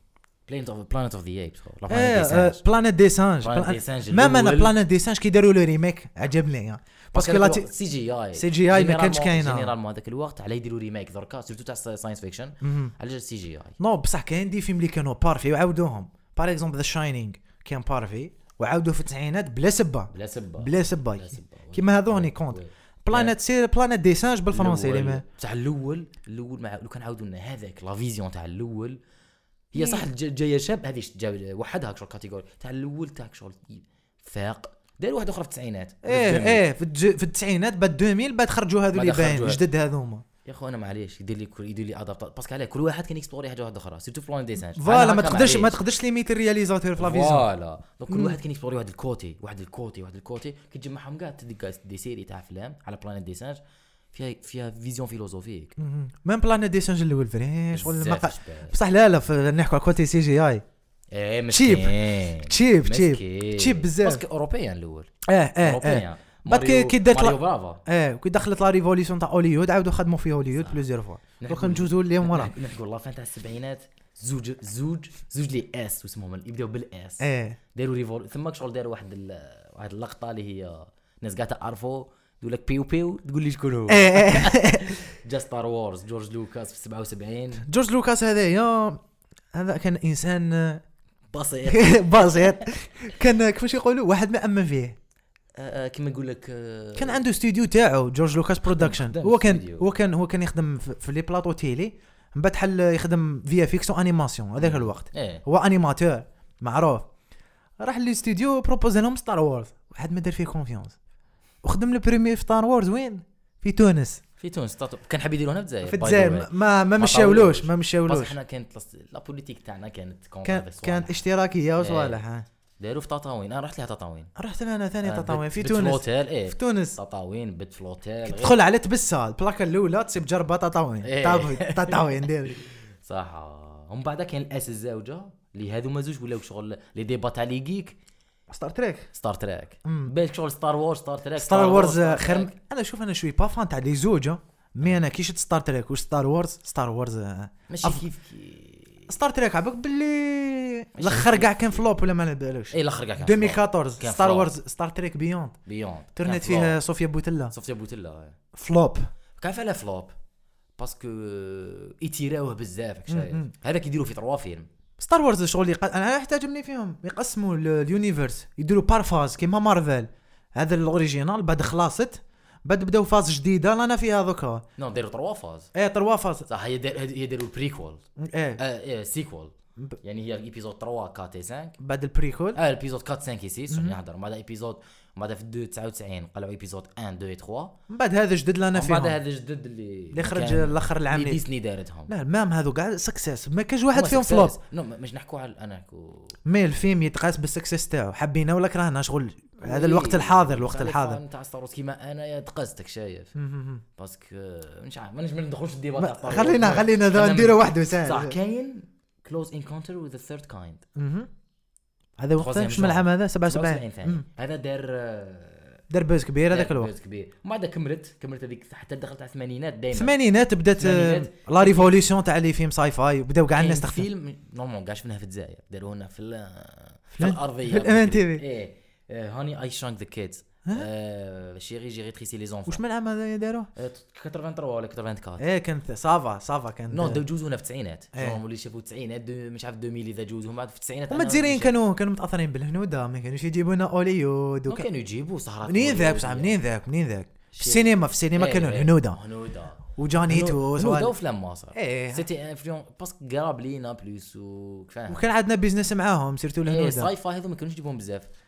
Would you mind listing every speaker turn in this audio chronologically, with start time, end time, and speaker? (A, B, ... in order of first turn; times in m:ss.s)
0:00.5-0:02.6 A
0:01.9-0:07.7 B
0:03.4-0:04.7 A
0:07.1-0:13.8 A
0:08.3-0:09.7 B
0:12.6-0:12.9 B
0:13.8-0:25.2 B
0:20.1-0:23.4 A
0:24.5-0:29.0 A
0:29.7-0:30.0 B
0:29.7-0:36.6 A
0:36.0-0:40.2 B
0:38.9-0:39.6 A
0:40.4-0:45.8 A
0:44.8-0:47.4 B
0:47.0-0:53.6 A
0:48.1-0:48.4 B
0:54.1-0:55.7 A
0:55.8-1:00.6 B
0:57.7-0:58.7 A
1:01.1-1:07.8 A
1:01.5-1:04.2 B
1:05.2-1:12.5 B
1:11.4-1:27.6 A
1:17.2-1:17.6 B
1:23.9-1:25.0 B
1:27.6-1:29.0 B
1:29.5-1:30.8 B
1:31.3-1:32.7 A
1:31.7-1:35.0 B
1:35.6-1:37.2 A
1:37.0-1:47.1 B
1:38.7-1:39.9 A
1:44.6-1:45.4 A
1:47.8-1:51.0 B
1:51.6-1:54.2 B
1:54.4-2:01.2 A
1:55.8-1:58.4 B
2:00.4-2:02.4 B
2:01.8-2:02.2 A
2:02.8-2:04.3 A
2:04.4-2:07.0 B
2:05.0-2:08.6 A
2:08.2-2:12.6 B
2:11.0-2:18.0 A
2:18.5-2:19.1 B
2:19.1-2:22.5 A
2:19.8-2:20.1 B
2:21.4-2:28.0 B
2:27.7-2:29.1 A
2:29.1-2:35.6 B
2:30.9-2:31.8 A
2:32.7-2:34.5 A
2:35.6-2:36.8 A
2:36.2-2:37.5 B
2:37.5-2:38.4 A
2:38.5-2:39.1 B
2:39.4-2:40.1 A
2:40.8-2:44.7 A
2:43.1-2:43.5 B
2:45.0-2:54.6 B
2:54.8-2:55.7 A
2:55.7-2:56.5 B
2:56.5-2:58.0 A
2:58.2-2:58.6 B
2:58.6-3:01.8 A
3:01.8-3:02.6 B
3:02.5-3:07.8 A
3:03.7-3:04.0 B
3:07.9-3:09.2 B
3:08.7-3:12.1 A
3:10.1-3:11.4 B
3:12.1-3:14.6 B
3:13.9-3:16.4 A
3:16.4-3:21.2 B
3:19.6-3:23.3 A
3:23.4-3:23.8 B
3:24.0-3:30.8 A
3:26.0-3:28.3 B
3:31.0-3:31.3 B
3:32.2-3:34.2 B
3:32.3-3:35.8 A
3:35.9-3:36.9 B
3:36.5-3:40.1 A
3:39.9-3:44.1 B
3:40.7-3:41.9 A
3:43.5-3:52.8 A
3:47.1-3:48.4 B
3:52.7-3:53.7 B
3:53.7-3:55.4 A
3:55.4-3:57.2 B
3:56.9-4:01.7 A
3:58.1-3:58.4 B
4:01.1-4:04.8 B
4:04.7-4:06.6 A
4:05.6-4:09.2 B
4:07.5-4:15.2 A
4:10.0-4:11.1 B
4:11.7-4:12.2 B
4:15.1-4:17.1 B
4:16.6-4:18.3 A